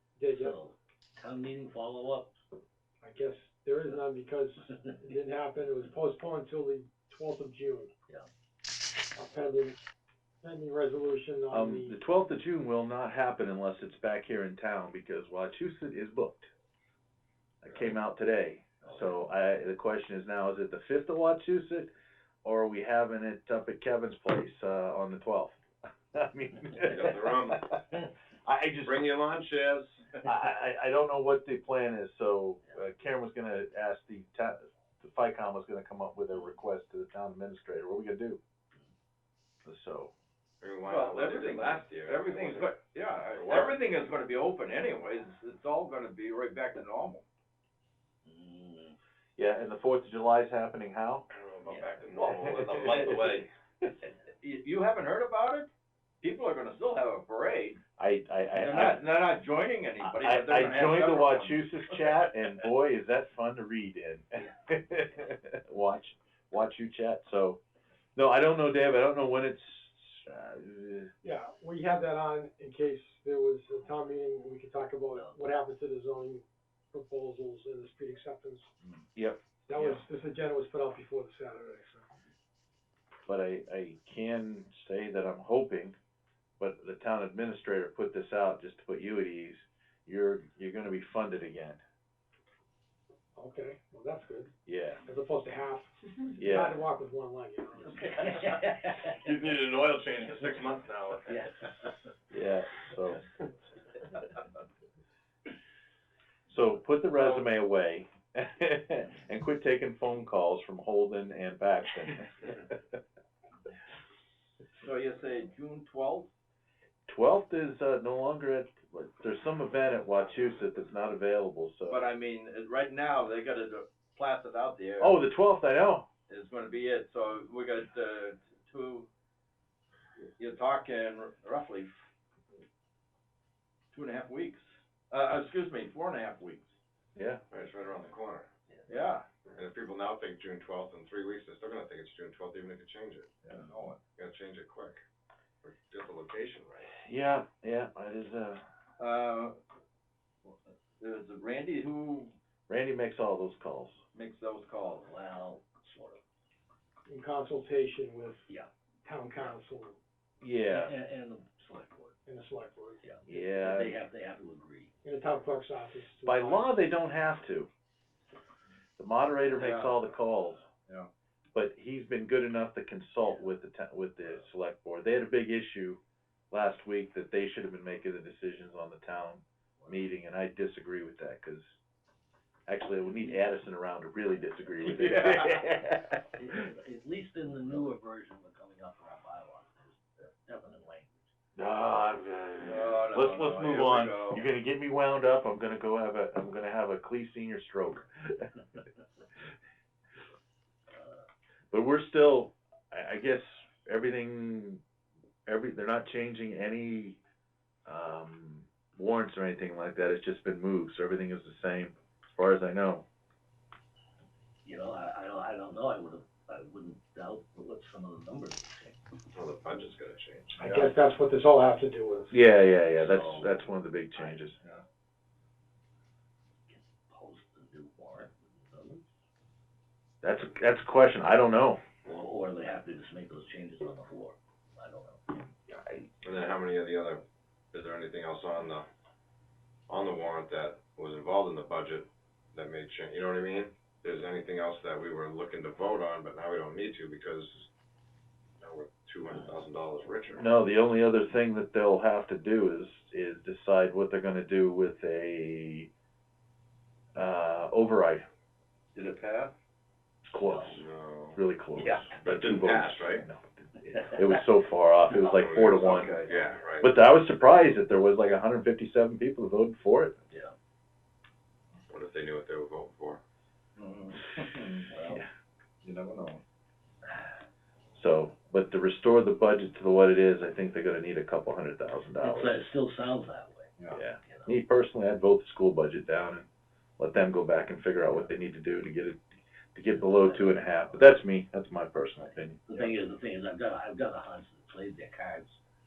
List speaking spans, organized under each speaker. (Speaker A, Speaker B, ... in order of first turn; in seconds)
Speaker A: 0.2-0.6, 3.0-7.9, 9.2-9.8, 10.4-12.0, 71.2-78.7, 79.7-82.1, 93.3-94.5, 95.0-98.1, 157.1-158.5, 159.0-160.0, 162.2-163.0, 165.0-166.7, 220.6-222.4
Speaker B: 0.3-2.3, 48.2-49.0, 51.7-52.0, 97.8-99.3, 101.3-101.9, 154.9-156.2, 160.7-162.2, 163.0-164.9, 186.3-191.3, 200.9-201.2, 214.6-219.0, 222.9-224.4, 226.7-229.0, 232.0-235.5, 260.5-260.8, 282.2-284.6, 289.9-291.0, 292.7-295.6
Speaker C: 11.5-16.5, 17.6-21.9, 22.4-25.6, 26.1-27.6, 28.4-29.0, 30.2-38.4, 39.6-40.1, 49.4-51.3, 52.2-53.4, 58.0-59.0, 60.0-67.6, 68.2-71.1, 79.1-80.0, 83.2-86.0, 86.6-91.8, 94.7-95.0, 96.4-96.8, 102.3-103.2, 106.5-113.0, 117.1-122.0, 125.0-126.1, 137.1-137.4, 146.9-148.6, 152.7-154.0, 160.4-160.9, 163.3-164.0, 166.2-167.7, 169.0-170.6, 171.5-176.0, 176.5-181.7, 182.7-186.2, 191.6-198.4, 201.7-204.8, 205.5-207.2, 207.8-213.0, 222.3-224.6, 230.2-231.8, 250.4-255.9, 257.1-258.2, 260.3-260.8, 261.3-266.1, 266.8-270.2, 277.9-282.6, 283.9-286.5, 287.0-289.2, 289.7-292.6
Speaker D: 26.9-27.6, 28.8-30.0, 40.6-43.8, 51.3-53.5, 99.0-101.4, 137.5-138.5, 139.5-143.3, 144.2-145.0, 145.6-146.9, 219.3-220.9, 236.2-238.9, 239.9-247.7, 248.6-250.5, 260.7-263.2, 265.1-266.9, 271.9-273.2
Speaker E: 40.8-47.2, 54.4-55.7, 56.2-57.8, 58.5-62.1, 114.8-116.3, 121.9-125.2, 126.3-129.1, 130.4-131.9, 133.9-136.7, 138.9-139.2, 143.4-144.0, 149.0-149.6, 150.4-152.3, 154.1-155.0, 169.5-170.0, 184.9-185.6, 192.6-194.5, 258.9-259.5, 265.8-266.4, 273.8-275.2, 275.8-276.4